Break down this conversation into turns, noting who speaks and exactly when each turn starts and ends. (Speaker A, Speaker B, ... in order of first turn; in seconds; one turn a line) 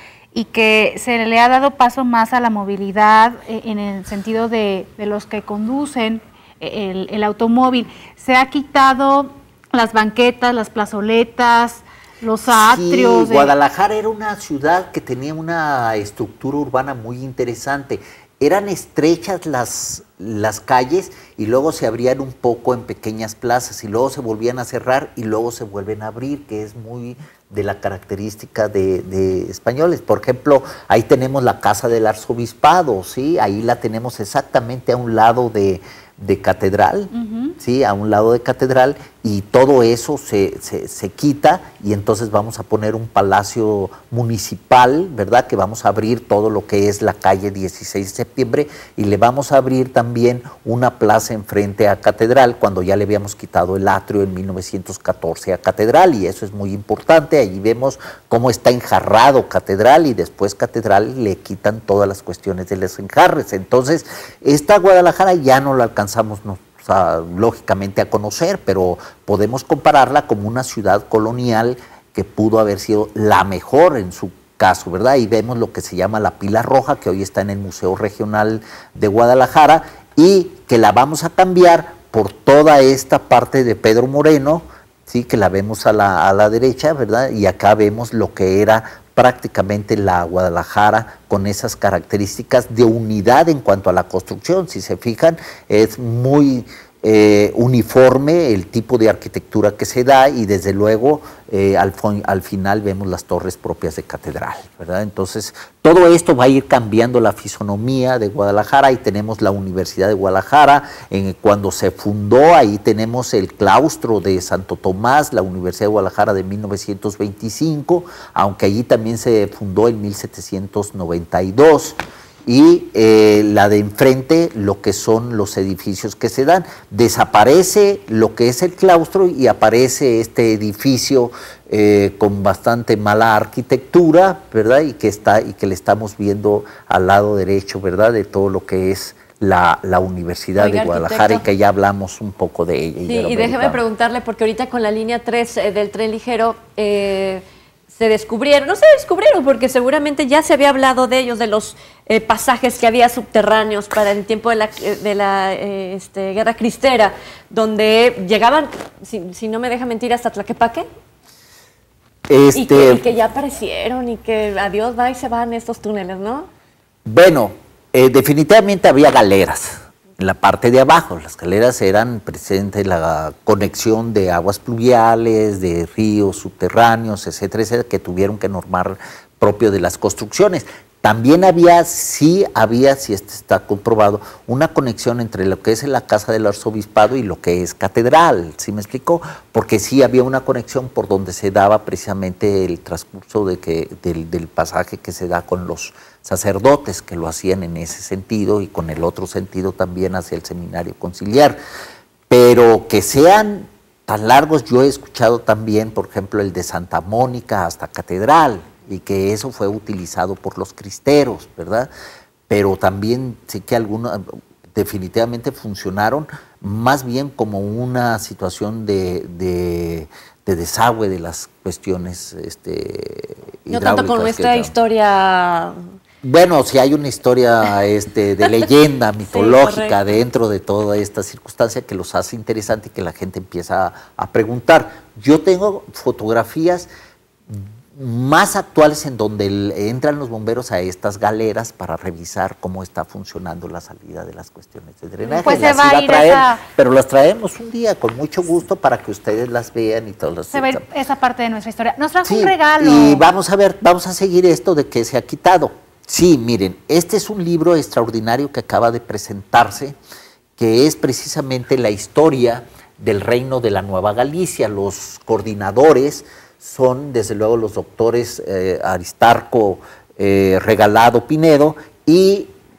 Speaker A: 0.3-13.5
Speaker B: 12.5-143.8
Speaker A: 37.1-37.5
Speaker C: 140.6-141.4
Speaker C: 143.1-160.8
Speaker B: 162.3-163.0
Speaker C: 162.5-166.5
Speaker B: 167.1-201.6
Speaker B: 202.3-211.9
Speaker B: 212.5-224.7
Speaker C: 223.7-225.9
Speaker B: 226.2-236.9
Speaker C: 228.4-228.7
Speaker C: 229.3-230.0
Speaker B: 237.5-250.8
Speaker A: 245.2-246.6
Speaker A: 250.5-253.3
Speaker B: 252.2-259.9
Speaker B: 260.6-272.5